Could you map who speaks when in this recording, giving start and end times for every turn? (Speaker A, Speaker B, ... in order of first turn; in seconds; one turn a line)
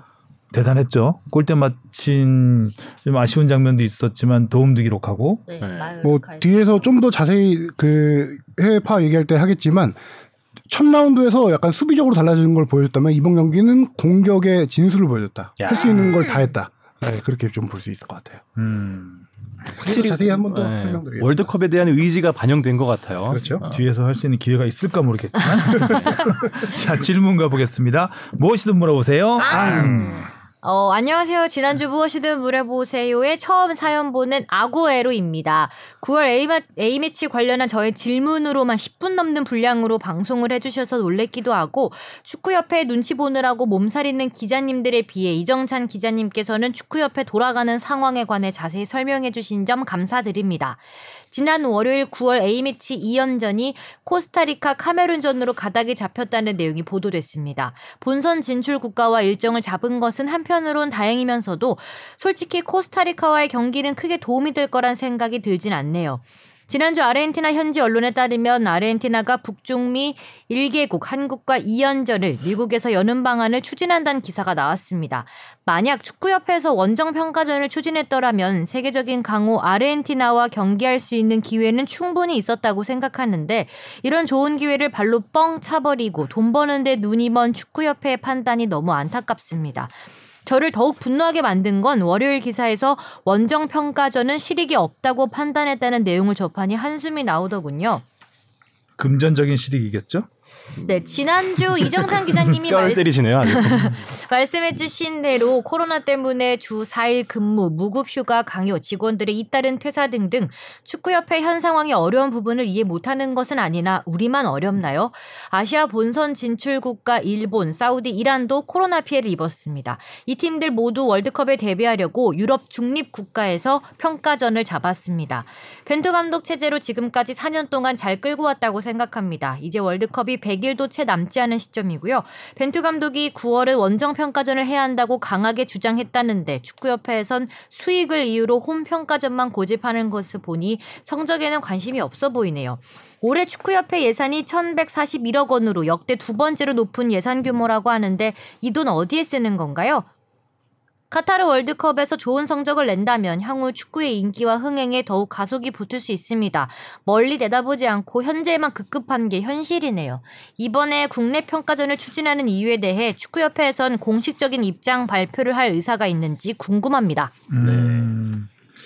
Speaker A: 0.5-5.4
Speaker B: 5.5-6.9
Speaker C: 5.6-5.9
Speaker D: 6.0-10.0
Speaker D: 10.7-18.4
Speaker C: 15.6-16.1
Speaker B: 16.1-16.5
Speaker A: 18.6-19.3
Speaker C: 19.8-23.8
Speaker D: 19.8-21.5
Speaker D: 23.3-23.6
Speaker A: 23.7-30.3
Speaker C: 25.8-26.2
Speaker B: 29.4-89.9
Speaker D: 29.5-30.0
Speaker B: 90.5-98.0
Speaker A: 99.0-100.3
Speaker C: 100.8-104.0
Speaker B: 100.8-150.1
Speaker B: 151.1-167.3
Speaker A: 167.5-168.5
Speaker C: 167.6-168.1